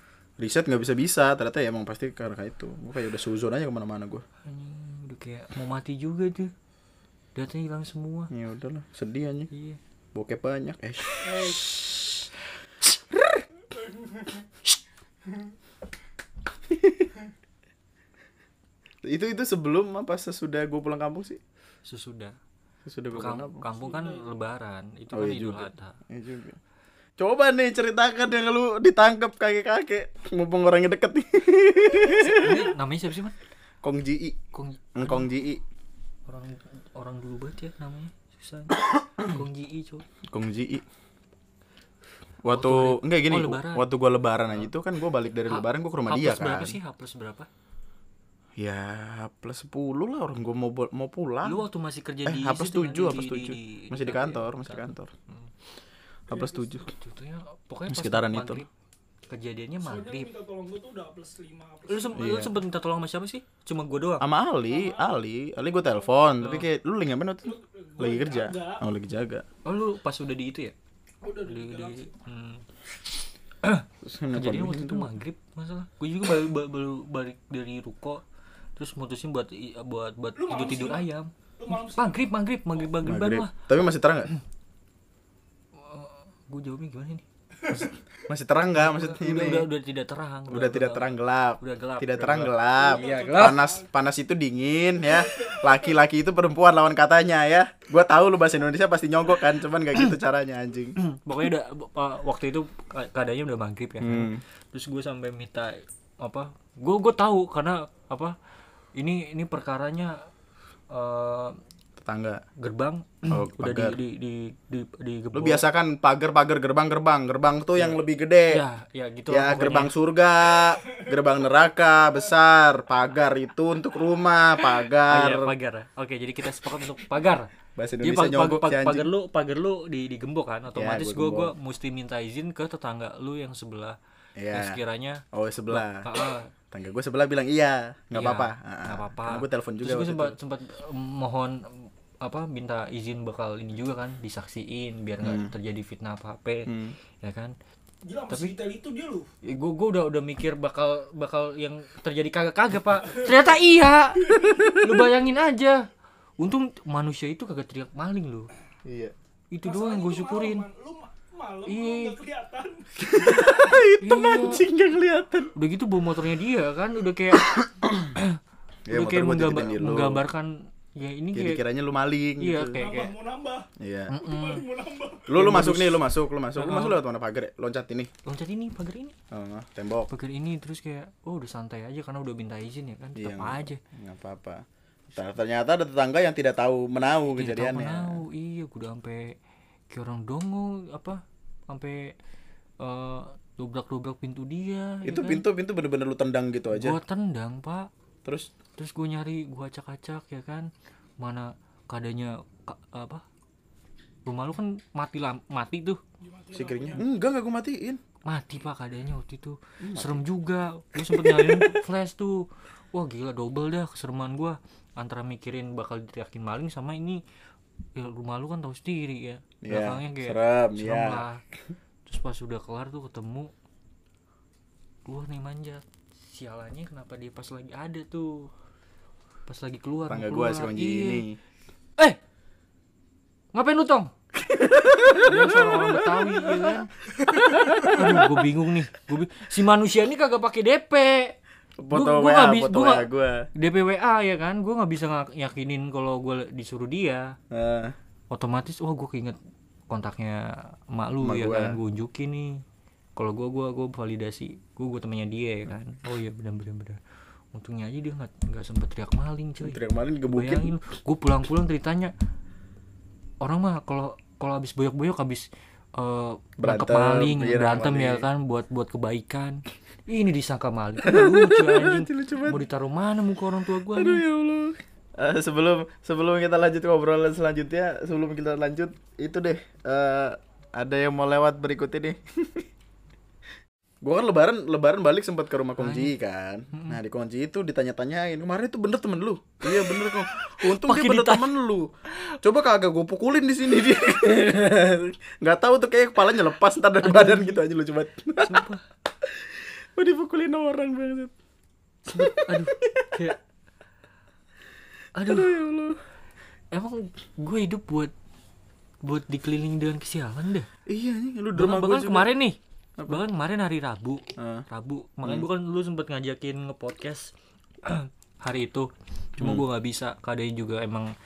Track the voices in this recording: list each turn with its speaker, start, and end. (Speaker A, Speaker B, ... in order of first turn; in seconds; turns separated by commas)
Speaker A: 0.4-4.2, Speaker B: 4.4-6.5, Speaker B: 7.3-8.3, Speaker A: 8.3-9.5, Speaker B: 9.5-9.8, Speaker A: 10.1-11.9, Speaker C: 11.2-11.7, Speaker A: 12.8-13.4, Speaker A: 16.7-17.1, Speaker A: 19.0-21.4, Speaker B: 21.9-22.4, Speaker A: 22.9-23.6, Speaker B: 23.1-25.9, Speaker C: 23.8-24.3, Speaker A: 25.1-26.6, Speaker A: 27.2-32.7, Speaker B: 32.2-33.3, Speaker A: 33.8-34.4, Speaker B: 34.5-35.3, Speaker A: 35.0-35.6, Speaker B: 36.3-40.0, Speaker A: 40.3-40.8, Speaker A: 42.4-46.8, Speaker B: 42.5-43.9, Speaker B: 45.5-47.5, Speaker A: 48.6-51.6, Speaker B: 51.4-55.5, Speaker A: 52.2-55.1, Speaker A: 56.3-56.9, Speaker C: 56.3-56.7, Speaker B: 56.9-58.7, Speaker A: 57.9-58.6, Speaker B: 59.3-60.3, Speaker C: 59.8-62.2, Speaker B: 61.9-64.2, Speaker A: 62.1-62.5, Speaker A: 64.2-69.4, Speaker C: 64.7-65.1, Speaker B: 66.4-66.7, Speaker C: 67.4-68.8, Speaker B: 69.6-70.7, Speaker C: 71.2-72.1, Speaker B: 71.4-72.6, Speaker B: 73.6-78.2, Speaker A: 74.0-75.1, Speaker B: 78.8-83.5, Speaker C: 80.4-82.2, Speaker A: 83.0-84.3, Speaker B: 85.8-87.2, Speaker A: 87.7-89.7, Speaker B: 88.8-93.7, Speaker A: 90.5-101.0, Speaker C: 92.8-93.9, Speaker C: 95.1-95.8, Speaker B: 101.0-108.3, Speaker A: 104.0-104.4, Speaker B: 109.0-110.2, Speaker B: 110.9-111.6, Speaker A: 112.0-112.4, Speaker B: 112.6-115.7, Speaker A: 113.3-114.0, Speaker A: 115.3-118.6, Speaker B: 117.8-119.9, Speaker A: 119.3-125.5, Speaker B: 125.0-134.0, Speaker A: 127.8-129.1, Speaker A: 130.7-131.5, Speaker A: 134.4-134.8, Speaker B: 134.5-136.5, Speaker A: 135.3-136.1, Speaker A: 136.7-140.3, Speaker B: 138.1-146.7, Speaker A: 145.2-145.5, Speaker A: 146.7-146.9, Speaker B: 147.2-147.5, Speaker C: 148.1-149.3, Speaker B: 148.3-148.5, Speaker B: 149.4-155.8, Speaker A: 154.5-154.8, Speaker B: 156.4-158.5, Speaker A: 158.8-159.1, Speaker B: 159.5-160.6, Speaker C: 159.6-163.5, Speaker B: 161.7-162.2, Speaker A: 163.1-165.5, Speaker B: 163.2-164.6, Speaker B: 165.5-167.5, Speaker A: 167.3-168.2, Speaker A: 168.9-170.2, Speaker B: 168.9-171.6, Speaker A: 171.3-172.8, Speaker B: 172.4-173.1, Speaker C: 172.8-173.7, Speaker A: 173.8-174.1, Speaker B: 174.1-174.6, Speaker C: 174.2-175.3, Speaker A: 175.3-178.1, Speaker B: 175.3-177.0, Speaker B: 178.2-179.1, Speaker A: 179.3-180.1, Speaker B: 180.1-183.8, Speaker A: 183.2-184.6, Speaker A: 185.2-188.2, Speaker B: 187.3-189.4, Speaker B: 189.9-192.1, Speaker B: 192.8-195.4, Speaker A: 195.0-197.0, Speaker B: 196.7-197.9, Speaker A: 198.2-198.5, Speaker B: 198.8-203.2, Speaker B: 204.2-206.0, Speaker C: 206.2-207.0, Speaker A: 206.5-208.0, Speaker B: 208.2-217.2, Speaker A: 209.8-210.2, Speaker A: 211.0-211.8, Speaker B: 217.9-221.4, Speaker A: 219.6-221.2, Speaker B: 222.1-223.5, Speaker B: 225.0-228.5, Speaker B: 229.5-231.2, Speaker A: 230.1-231.4, Speaker B: 233.5-234.1, Speaker A: 234.4-238.4, Speaker B: 235.2-236.9, Speaker B: 237.6-241.4, Speaker A: 241.8-243.5, Speaker B: 241.9-247.3, Speaker A: 247.5-247.9, Speaker B: 248.3-249.4, Speaker B: 249.9-252.6, Speaker A: 251.2-251.8, Speaker B: 253.2-257.0, Speaker B: 257.5-262.1, Speaker A: 259.6-260.7, Speaker B: 263.4-274.2, Speaker A: 266.6-268.2, Speaker A: 271.0-272.6, Speaker A: 273.9-282.6, Speaker A: 284.0-291.9, Speaker B: 285.8-286.1, Speaker B: 286.7-287.0, Speaker B: 289.8-291.5, Speaker A: 292.4-298.6, Speaker B: 297.0-297.6, Speaker B: 298.4-298.8, Speaker A: 299.3-301.3, Speaker A: 302.1-303.3, Speaker B: 302.1-303.4, Speaker B: 305.1-305.5, Speaker A: 305.2-306.0, Speaker B: 306.7-308.1, Speaker B: 309.0-310.7, Speaker A: 310.9-312.3, Speaker B: 311.6-317.3, Speaker A: 314.4-314.6, Speaker B: 317.8-321.1, Speaker A: 319.4-319.6